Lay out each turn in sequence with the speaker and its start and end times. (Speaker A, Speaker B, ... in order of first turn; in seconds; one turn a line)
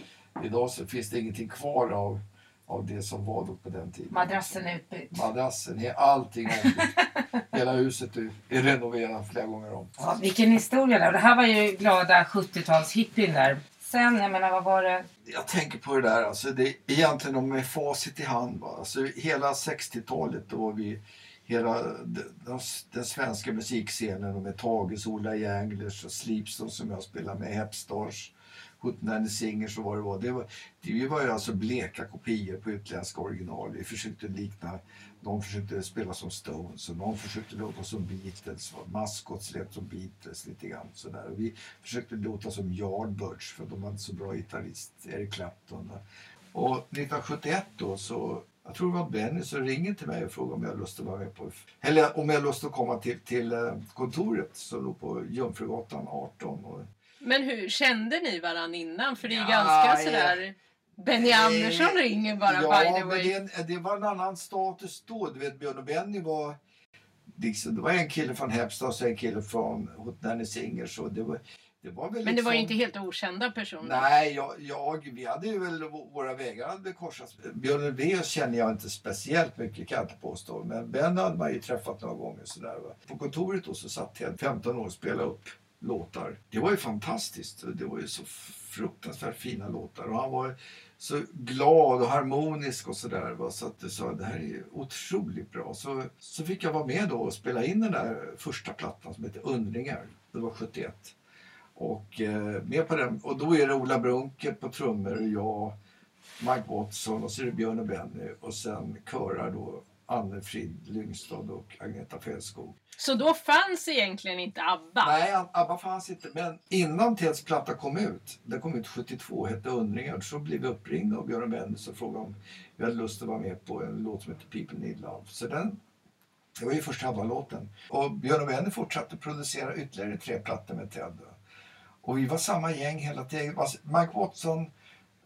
Speaker A: 0.4-4.5
Speaker B: 4.1-5.2
Speaker A: 5.1-6.9
Speaker A: 7.5-10.1
Speaker B: 10.0-15.1
Speaker A: 15.2-46.0
Speaker A: 46.5-56.9
Speaker C: 57.2-63.3
Speaker A: 59.2-60.4
Speaker A: 61.1-66.6
Speaker A: 67.3-72.8
Speaker C: 72.2-74.0
Speaker A: 73.8-101.2
Speaker A: 101.8-105.8
Speaker A: 106.4-112.8
Speaker C: 113.0-115.1
Speaker A: 115.0-125.8
Speaker A: 126.6-131.4
Speaker A: 132.0-134.7